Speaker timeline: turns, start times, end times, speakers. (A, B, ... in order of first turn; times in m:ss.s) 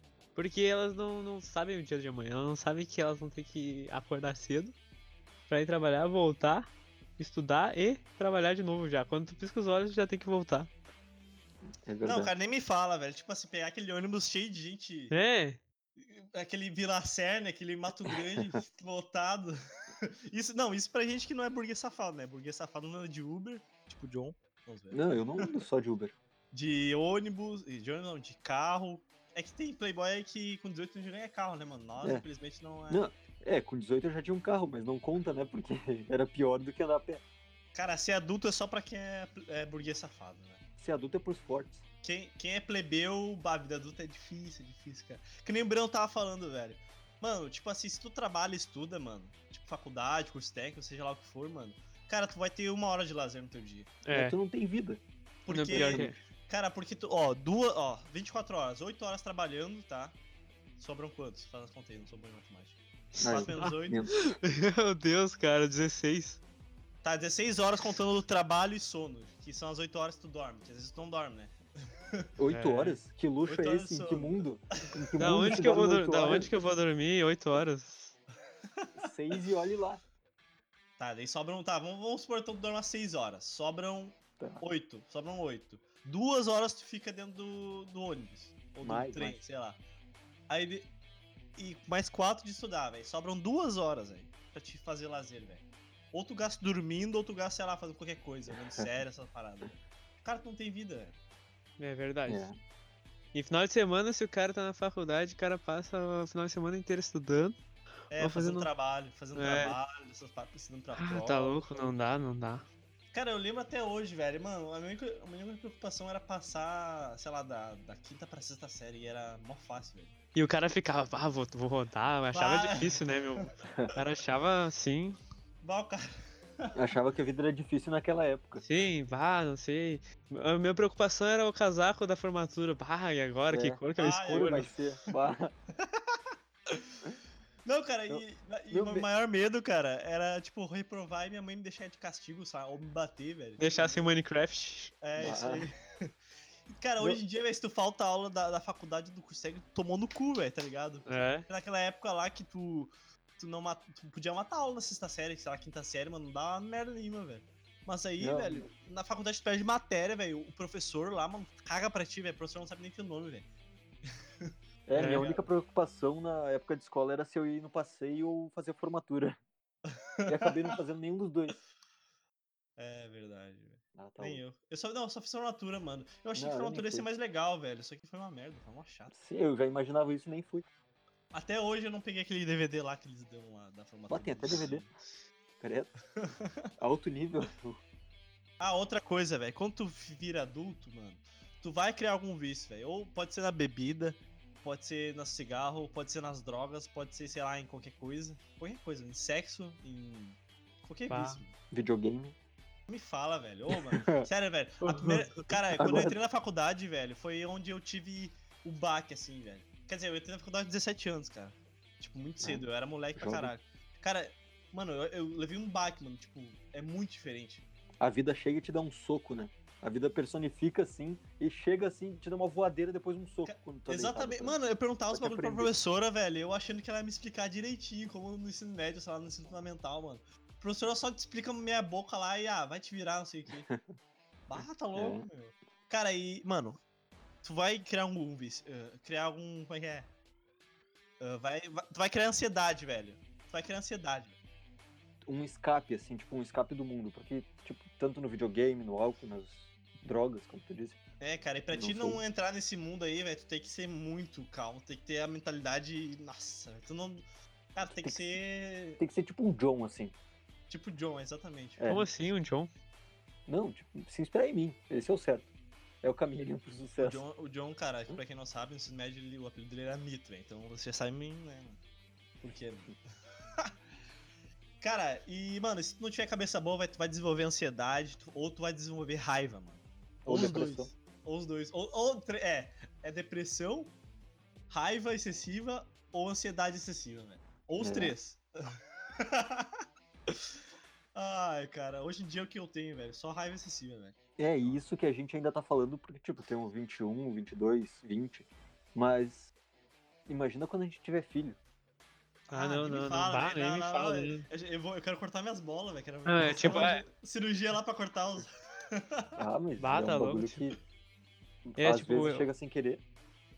0:00.4-0:04.7 A
0:05.5-0:10.7 A
0:11.8-0:12.3 B
0:12.0-0:15.2 C
0:15.1-0:15.6 A
0:16.0-0:19.6 C
0:20.3-0:25.6 C
0:24.9-0:26.2 B
0:26.5-0:33.0 C
0:32.9-0:37.2 B
0:37.7-0:40.6 C
0:40.8-0:41.8 B
0:42.0-0:54.0 C
0:54.0-0:54.4 A
0:54.1-0:55.0 B
0:55.5-1:00.2 C
0:55.5-0:56.2 A
0:55.7-0:56.1 B
1:00.8-1:04.0 C
1:03.2-1:03.7 A
1:03.2-1:04.1 B
1:04.3-1:06.4 A
1:07.0-1:11.6 C
1:12.4-1:16.5 B
1:12.5-1:13.0 A
1:13.5-1:14.4 C
1:15.2-1:18.2 A
1:19.0-1:20.0 B
1:21.0-1:29.8 C
1:28.8-1:29.4 B
1:30.5-1:30.9 C
1:31.6-1:41.2 C
1:41.8-1:42.5 A
1:42.3-1:42.6 B
1:43.3-1:47.6 A
1:48.1-1:51.9 C
1:48.2-1:48.7 A
1:49.4-1:49.8 A
1:50.9-1:52.7 A
1:53.1-2:00.1 C
2:00.4-2:05.2 A
2:02.3-2:03.4 C
2:05.6-2:06.1 C
2:06.8-2:08.6 B
2:08.6-2:14.7 A
2:13.5-2:15.5 B
2:14.0-2:14.7 C
2:15.9-2:17.0 C
2:17.7-2:24.0 C
2:18.1-2:19.1 B
2:23.6-2:24.9 A
2:25.0-2:26.1 C
2:25.2-2:25.7 B
2:26.7-2:43.5 C
2:31.1-2:31.5 A
2:38.2-2:38.7 B
2:44.9-2:49.4 B
2:45.0-2:45.3 A
2:45.0-2:45.4 C
2:49.9-2:50.8 C
2:50.3-2:51.6 B
2:52.8-2:59.1 C
2:54.0-2:54.4 B
2:56.4-2:57.1 B
2:59.1-3:00.7 B
3:01.3-3:04.9 C
3:04.1-3:04.8 B
3:05.6-3:05.9 B
3:06.2-3:06.5 C
3:06.8-3:07.8 B
3:08.6-3:21.6 C
3:21.1-3:21.4 A
3:21.7-3:22.4 B
3:22.9-3:37.6 C
3:23.9-3:24.3 B
3:24.8-3:25.4 A
3:25.7-3:26.2 B
3:33.2-3:33.5 B
3:38.0-3:44.6 B
3:43.5-3:53.7 C
3:45.1-3:45.7 B
3:54.5-3:56.8 C
3:54.6-3:55.3 B
3:57.4-4:00.1 C
4:01.2-4:04.4 C
4:05.2-4:11.0 B
4:11.2-4:17.2 C
4:11.7-4:12.2 B
4:17.8-4:19.0 C
4:17.8-4:18.2 B
4:19.0-4:20.1 B
4:20.7-4:21.9 C
4:21.8-4:22.1 B
4:21.8-4:22.7 A
4:23.5-4:25.5 B
4:26.0-4:27.2 B
4:27.0-4:31.8 C
4:32.4-4:33.0 C
4:34.8-4:43.9 C
4:40.2-4:40.9 B
4:44.7-4:50.5 C
4:47.8-4:48.2 B
4:51.1-4:54.8 C
4:54.4-4:59.5 B
5:00.3-5:01.6 B
5:02.5-5:09.3 C
5:02.5-5:04.5 A
5:06.3-5:07.0 A
5:09.4-5:10.8 B
5:09.8-5:10.6 A
5:11.7-5:13.0 B
5:11.8-5:12.5 A